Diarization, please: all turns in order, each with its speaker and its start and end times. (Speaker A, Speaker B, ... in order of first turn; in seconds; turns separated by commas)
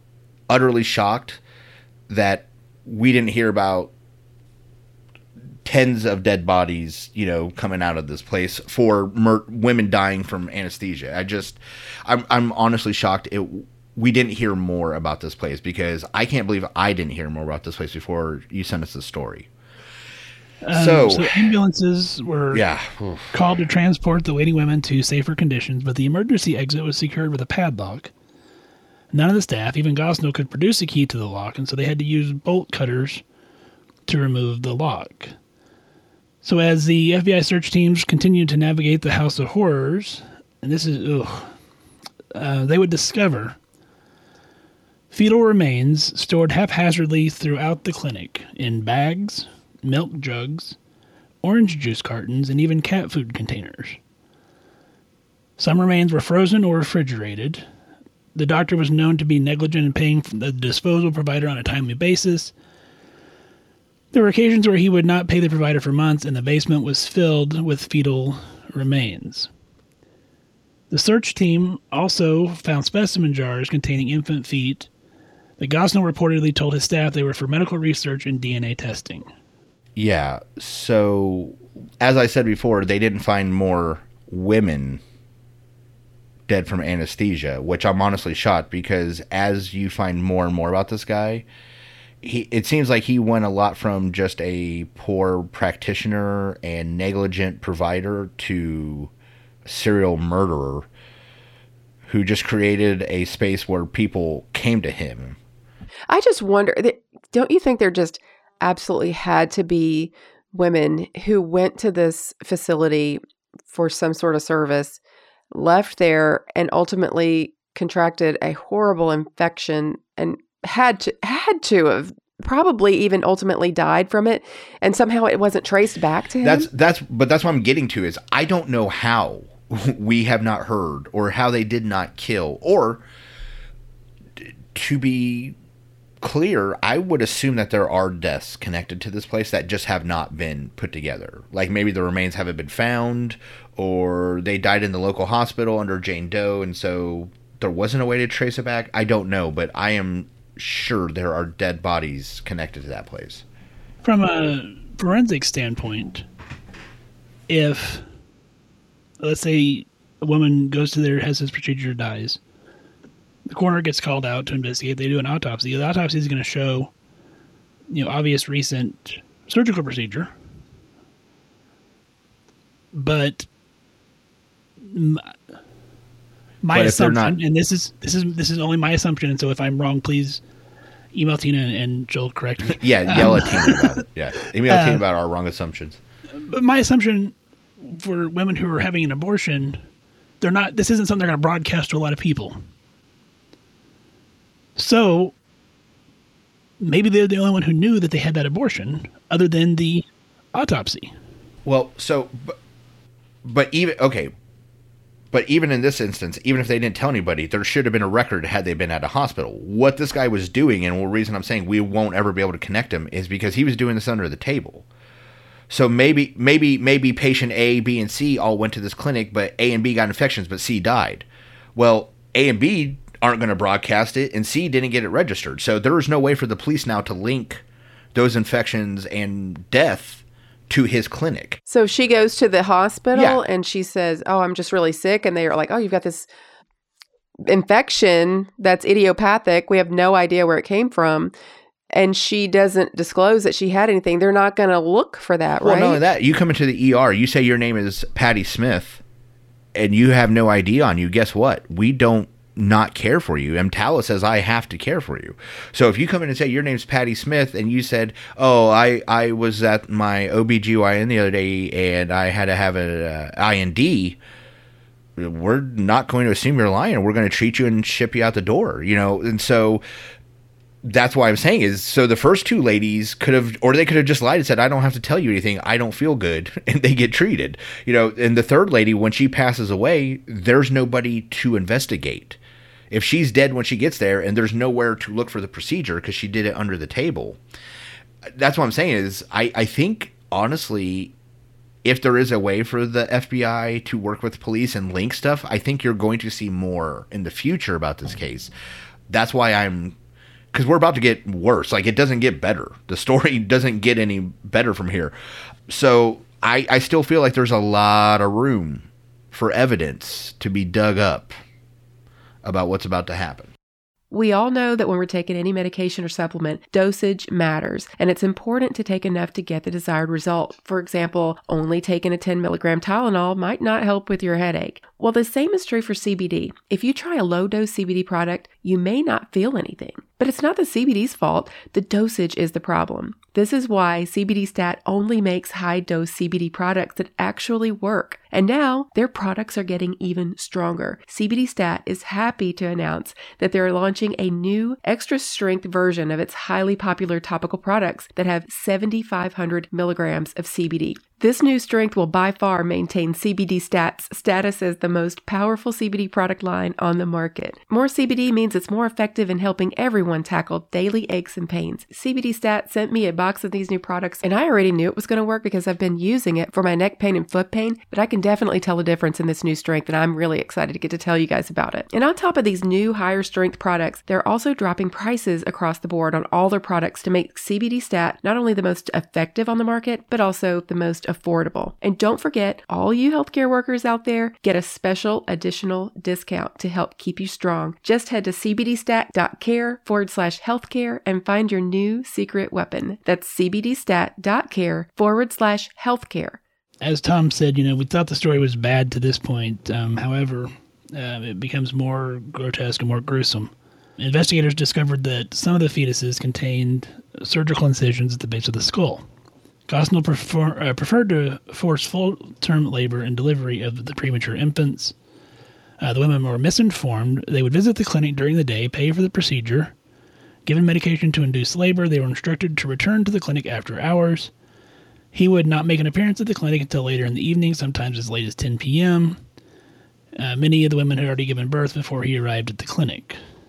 Speaker A: 0.5-1.4, Speaker A: 2.1-3.9, Speaker A: 5.7-19.5, Speaker B: 20.6-22.6, Speaker A: 20.7-21.6, Speaker A: 22.5-23.3, Speaker B: 23.3-28.1, Speaker B: 29.1-33.2, Speaker B: 34.1-35.4, Speaker B: 36.4-41.5, Speaker B: 42.4-43.6, Speaker B: 45.1-50.8, Speaker B: 51.4-54.0, Speaker B: 55.6-57.6, Speaker B: 58.4-62.5, Speaker B: 64.1-69.5, Speaker B: 70.9-74.9, Speaker B: 75.6-79.3, Speaker A: 80.0-85.0, Speaker A: 86.5-91.5, Speaker A: 92.2-99.1, Speaker A: 99.7-100.9, Speaker A: 102.1-105.4, Speaker C: 106.1-115.0, Speaker C: 115.5-126.7, Speaker A: 126.4-133.0, Speaker A: 134.4-135.6, Speaker A: 136.2-153.4, Speaker B: 154.0-156.3, Speaker B: 157.5-158.0, Speaker B: 159.2-162.4, Speaker B: 163.5-166.9, Speaker B: 167.9-170.3, Speaker B: 172.9-173.5, Speaker B: 174.8-175.3, Speaker B: 176.6-180.4, Speaker A: 176.7-177.3, Speaker B: 181.1-184.0, Speaker A: 182.7-186.0, Speaker B: 184.7-185.0, Speaker B: 186.4-189.8, Speaker B: 190.4-192.6, Speaker B: 194.8-195.3, Speaker B: 196.8-201.1, Speaker A: 201.7-202.6, Speaker A: 203.4-204.3, Speaker A: 205.3-214.9, Speaker A: 215.7-231.6, Speaker C: 231.7-236.3, Speaker A: 233.1-233.4, Speaker C: 237.5-241.3, Speaker C: 241.9-246.0, Speaker A: 245.6-249.0, Speaker A: 249.8-264.2, Speaker A: 265.2-269.8, Speaker A: 270.8-282.4, Speaker A: 282.9-287.4, Speaker A: 288.3-291.1, Speaker A: 291.8-298.5, Speaker A: 299.1-300.0, Speaker A: 300.5-305.1, Speaker A: 305.7-311.4, Speaker A: 312.4-313.5, Speaker C: 314.1-396.4, Speaker B: 396.8-409.1, Speaker B: 409.7-414.9, Speaker B: 415.8-419.7, Speaker B: 420.5-424.3, Speaker B: 425.1-429.2, Speaker B: 430.2-433.2